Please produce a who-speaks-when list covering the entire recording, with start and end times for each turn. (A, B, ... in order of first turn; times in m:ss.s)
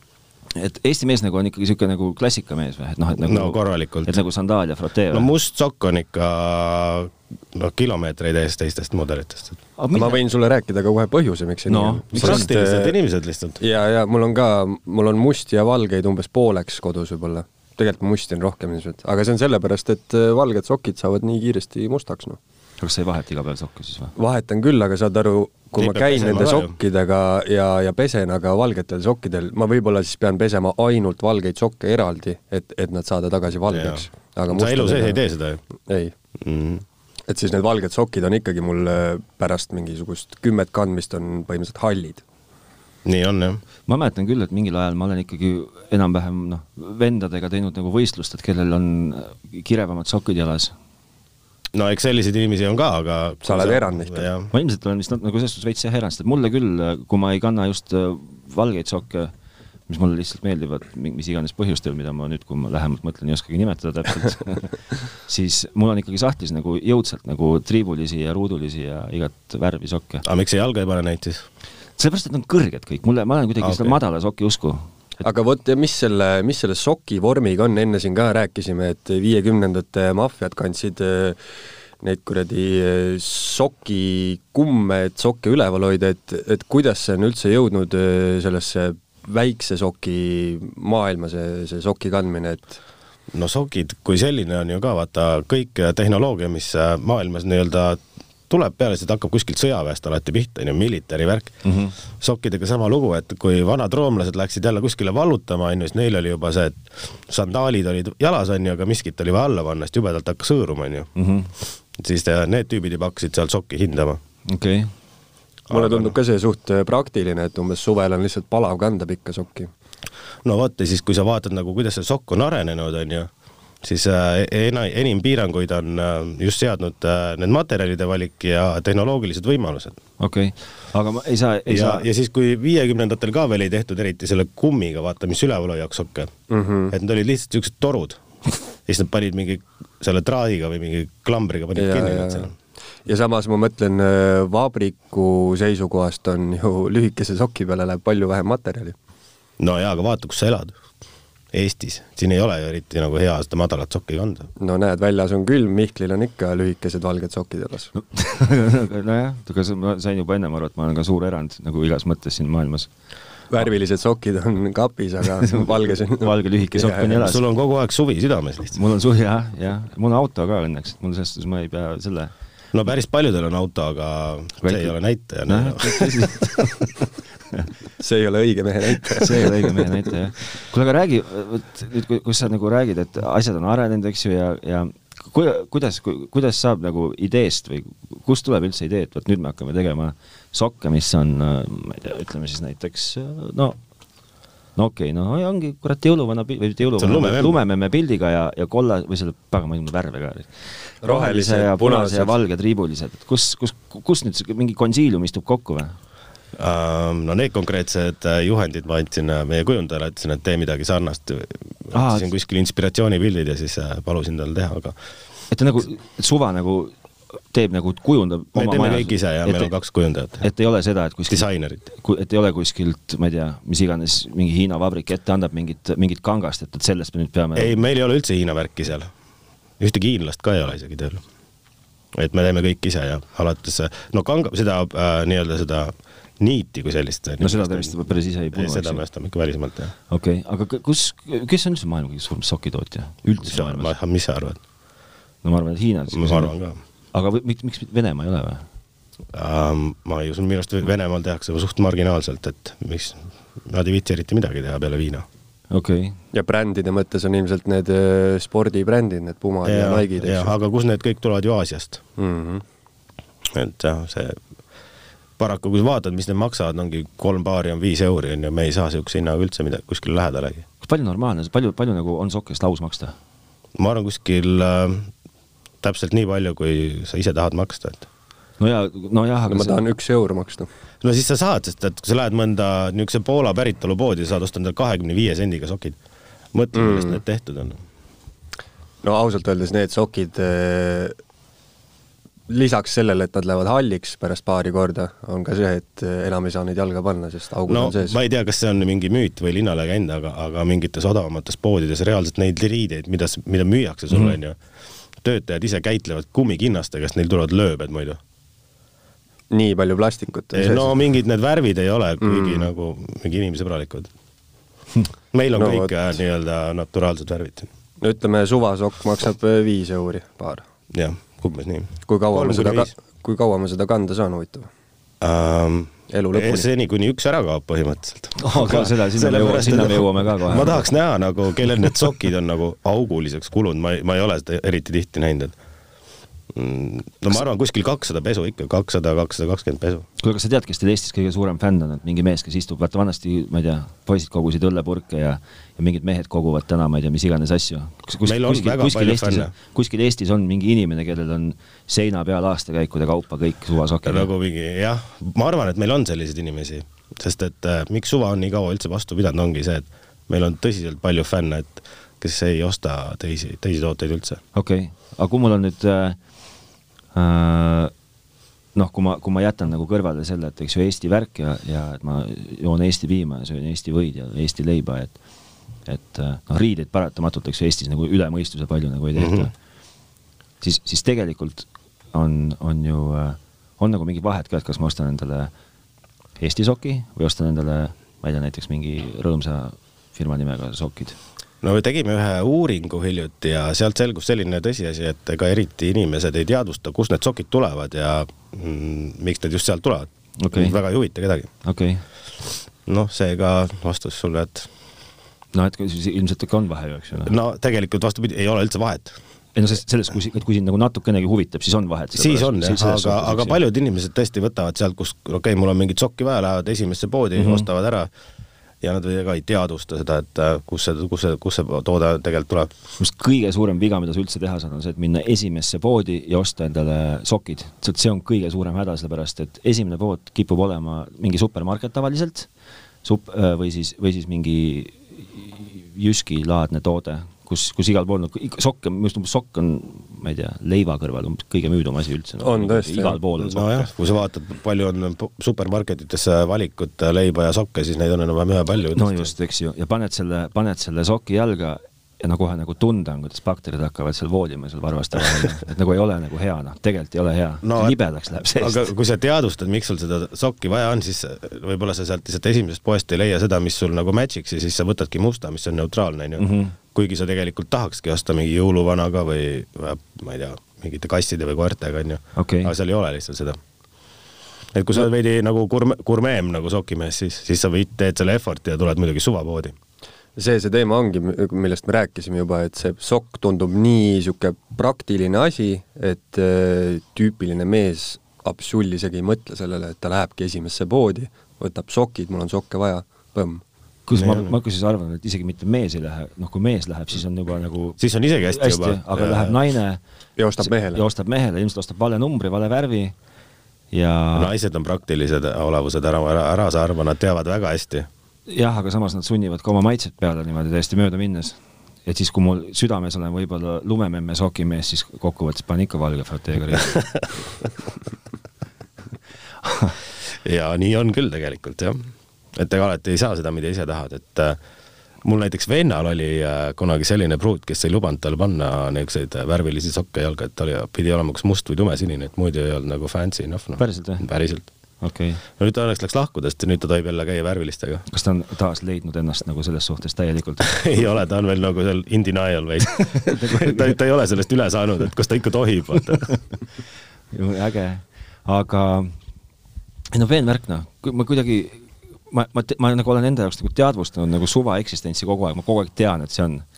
0:00.6-0:05.3 A
0:03.2-0:04.2 B
0:05.1-0:09.6 B
0:09.8-0:10.2 A
0:09.9-0:13.0 C
0:11.7-0:12.5 A
0:12.1-0:13.6 B
0:13.6-0:22.4 C
0:22.8-0:24.1 A
0:24.2-0:35.2 C
0:25.8-0:26.7 B
0:33.7-0:35.6 B
0:35.9-0:36.1 C
0:36.4-0:36.8 B
0:37.3-0:42.2 C
0:43.0-0:43.6 B
0:43.9-0:50.8 A
0:51.7-0:54.5 B
0:53.4-0:54.3 C
0:54.5-0:59.3 A
0:59.9-1:10.2 A
1:10.2-1:11.5 B
1:12.0-1:14.9 A
1:13.6-1:14.0 B
1:15.2-1:21.4 C
1:22.0-1:32.8 C
1:33.3-1:41.6 B
1:41.6-1:42.0 A
1:42.2-1:51.1 B
1:51.2-1:51.5 A
1:52.0-1:54.2 B
1:54.5-1:54.9 A
1:55.7-1:56.2 B
1:55.7-1:59.7 C
2:00.4-2:03.3 B
2:03.8-2:10.0 B
2:10.2-2:12.1 A
2:11.7-2:16.3 B
2:16.5-2:17.0 C
2:16.9-2:18.2 B
2:18.9-2:22.5 B
2:21.8-2:22.5 C
2:23.1-2:29.0 C
2:29.6-2:30.7 B
2:31.5-2:34.5 B
2:34.6-2:37.9 C
2:38.1-2:42.9 A
2:43.5-2:47.3 C
2:45.4-2:47.4 A
2:47.2-2:48.8 B
2:48.8-2:52.3 A
2:52.7-2:56.3 B
2:54.6-2:54.9 A
2:55.5-2:56.9 A
2:58.0-2:59.9 C
2:59.1-3:13.8 A
3:14.8-3:20.5 A
3:17.0-3:17.6 B
3:21.0-3:22.4 C
3:21.0-3:26.0 A
3:26.6-3:35.0 B
3:31.9-3:32.3 A
3:35.5-3:36.9 A
3:37.5-3:39.7 A
3:38.6-3:40.4 B
3:40.4-3:47.8 A
3:41.3-3:41.8 B
3:47.6-3:49.1 B
3:49.8-3:51.2 B
3:52.1-3:58.0 B
3:57.4-3:59.0 A
3:58.5-3:59.9 B
4:00.1-4:04.0 A
4:03.4-4:04.6 B
4:05.4-4:06.6 A
4:06.1-4:06.8 B
4:07.1-4:08.6 A
4:09.3-4:15.3 B
4:15.7-4:16.2 A
4:16.3-4:20.5 C
4:19.6-4:22.0 B
4:22.2-4:22.6 C
4:23.4-4:24.4 B
4:25.4-4:30.6 B
4:30.8-4:33.2 A
4:33.8-4:35.1 B
4:35.8-4:38.1 B
4:38.6-4:39.8 A
4:39.5-4:40.7 C
4:41.0-4:46.0 B
4:46.5-4:47.8 B
4:46.8-4:47.2 C
4:49.0-4:51.2 C
4:52.5-4:58.2 C
4:57.7-5:04.6 B
5:05.2-5:08.2 B
5:09.5-5:11.0 C
5:10.5-5:14.1 B
5:12.2-5:12.7 C
5:15.3-5:17.7 B
5:15.6-5:15.9 C
5:18.0-5:20.6 C
5:20.9-5:22.9 B
5:22.1-5:24.7 C
5:25.2-5:35.6 B
5:26.1-5:26.7 C
5:28.4-5:30.9 A
5:36.5-5:40.1 B
5:40.2-5:54.3 A
5:48.2-5:49.5 B
5:54.0-6:04.4 B
6:04.6-6:06.2 A
6:07.2-6:07.9 A
6:08.8-6:15.2 A
6:15.9-6:19.5 A
6:19.2-6:19.5 B
6:20.6-6:25.5 A
6:26.4-6:31.2 A
6:31.6-6:41.5 B
6:40.4-6:40.8 A
6:41.6-6:42.0 A
6:42.9-6:44.7 B
6:45.5-6:47.3 A
6:47.3-6:49.2 B
6:49.6-6:53.6 A
6:52.2-6:58.1 B
6:57.4-6:57.7 A
6:58.8-7:02.7 B
7:03.0-7:12.5 A
7:13.0-7:23.9 A
7:22.4-7:23.2 C
7:23.4-7:29.3 B
7:29.0-7:38.9 A
7:37.6-7:38.0 B
7:38.6-7:53.6 B
7:46.4-7:46.8 A
7:52.4-7:52.7 A
7:54.7-7:59.8 B
8:00.4-8:13.6 C
8:14.1-8:20.0 A
8:14.1-8:14.5 B
8:18.0-8:19.6 B
8:20.4-8:21.0 C
8:20.6-8:23.1 A
8:23.9-8:24.5 A
8:24.4-8:28.1 B
8:28.5-8:37.1 A
8:39.6-8:39.9 A
8:40.2-8:44.6 B
8:45.2-8:54.7 B
8:53.8-8:54.3 A
8:55.0-8:55.4 A
8:55.5-8:58.0 B
8:58.1-9:00.8 A
9:00.6-9:06.3 B
9:03.0-9:04.0 A
9:07.3-9:09.2 A
9:10.1-9:16.6 A